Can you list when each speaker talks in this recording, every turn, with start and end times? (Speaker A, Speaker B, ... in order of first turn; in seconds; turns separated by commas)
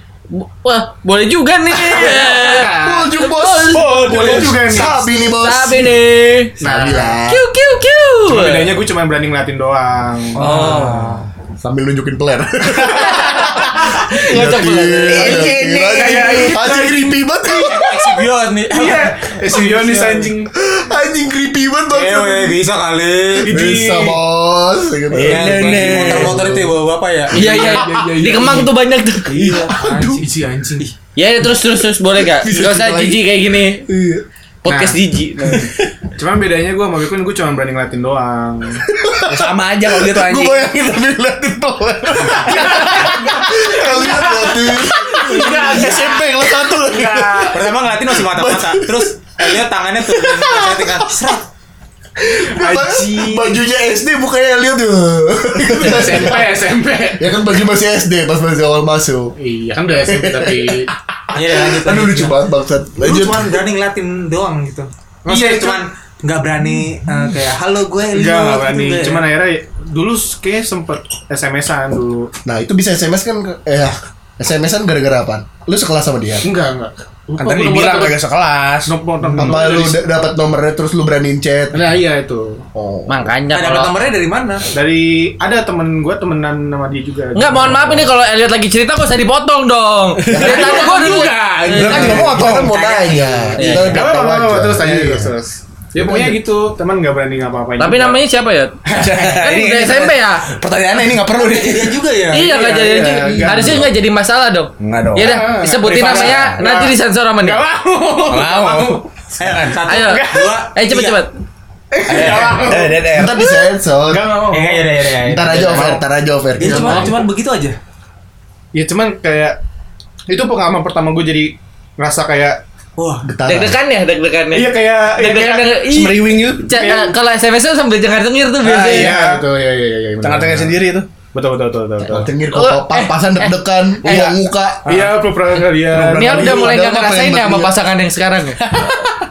Speaker A: 0.3-4.4, Speaker B: 1.7-3.0, Speaker C: 2.8-6.0, Speaker B: 3.7-5.0, Speaker D: 4.1-4.5, Speaker A: 5.2-8.8, Speaker B: 6.6-7.2, Speaker C: 6.6-7.5, Speaker B: 8.2-11.0, Speaker A: 10.4-11.2, Speaker E: 10.4-11.2, Speaker C: 11.6-18.2, Speaker B: 13.0-13.6, Speaker A: 13.1-15.6, Speaker D: 15.1-16.8, Speaker B: 15.8-17.1, Speaker E: 17.5-20.3, Speaker B: 18.7-20.5, Speaker C: 20.5-22.6, Speaker E: 21.9-23.6, Speaker B: 23.4-24.2, Speaker C: 23.5-26.6, Speaker D: 25.1-26.5, Speaker E: 25.2-27.7, Speaker B: 27.3-28.7, Speaker A: 27.3-29.4, Speaker E: 29.3-30.3, Speaker B: 29.3-30.9, Speaker C: 29.4-30.2, Speaker A: 31.1-33.9, Speaker C: 32.3-33.3, Speaker C: 33.9-34.2, Speaker A: 34.6-35.7, Speaker B: 34.7-38.8, Speaker C: 38.9-51.3, Speaker D: 39.3-40.7, Speaker B: 42.3-46.2, Speaker D: 42.6-43.1, Speaker D: 45.3-46.2, Speaker B: 46.8-47.5, Speaker E: 47.5-51.5, Speaker C: 52.2-56.6, Speaker B: 52.6-53.5, Speaker B: 55.6-57.3, Speaker C: 57.2-59.3, Speaker B: 59.4-60.9, Speaker C: 60.0-60.8, Speaker E: 61.3-62.4, Speaker C: 61.5-63.6, Speaker E: 63.0-69.3, Speaker B: 65.3-65.8, Speaker B: 68.1-72.3, Speaker C: 72.4-76.5, Speaker B: 76.4-78.2, Speaker D: 77.4-78.9, Speaker B: 78.8-80.0, Speaker C: 79.2-81.9, Speaker B: 81.7-82.7, Speaker C: 82.7-83.3, Speaker A: 83.1-83.9, Speaker E: 83.5-84.6, Speaker B: 84.7-88.1, Speaker A: 87.3-92.3, Speaker D: 90.2-92.7, Speaker C: 90.3-91.0, Speaker B: 90.5-90.9, Speaker C: 91.7-95.3, Speaker E: 92.1-93.8, Speaker A: 93.6-94.0, Speaker B: 93.7-98.2, Speaker C: 96.0-96.4, Speaker A: 97.8-100.5, Speaker D: 98.8-102.0, Speaker E: 101.2-102.5, Speaker A: 102.3-107.7, Speaker B: 102.3-103.8, Speaker C: 103.5-103.8, Speaker D: 104.8-106.6, Speaker B: 105.2-109.0, Speaker D: 108.3-109.8, Speaker E: 109.4-111.2, Speaker A: 109.9-111.3, Speaker B: 111.9-114.9, Speaker D: 112.1-113.4, Speaker C: 113.1-114.3, Speaker E: 114.5-116.0, Speaker C: 115.2-117.1, Speaker E: 116.6-117.8, Speaker B: 116.6-117.1, Speaker B: 118.7-119.6, Speaker B: 120.3-122.6, Speaker E: 123.0-123.3, Speaker C: 123.2-123.8, Speaker A: 123.5-129.2, Speaker B: 124.5-125.8, Speaker D: 125.9-126.8, Speaker B: 126.7-127.1, Speaker D: 128.6-129.4, Speaker B: 128.7-130.8, Speaker D: 130.2-131.1, Speaker B: 131.3-132.3, Speaker C: 132.0-135.1, Speaker A: 132.5-134.3, Speaker B: 134.8-136.6, Speaker C: 135.8-137.7, Speaker A: 136.1-138.8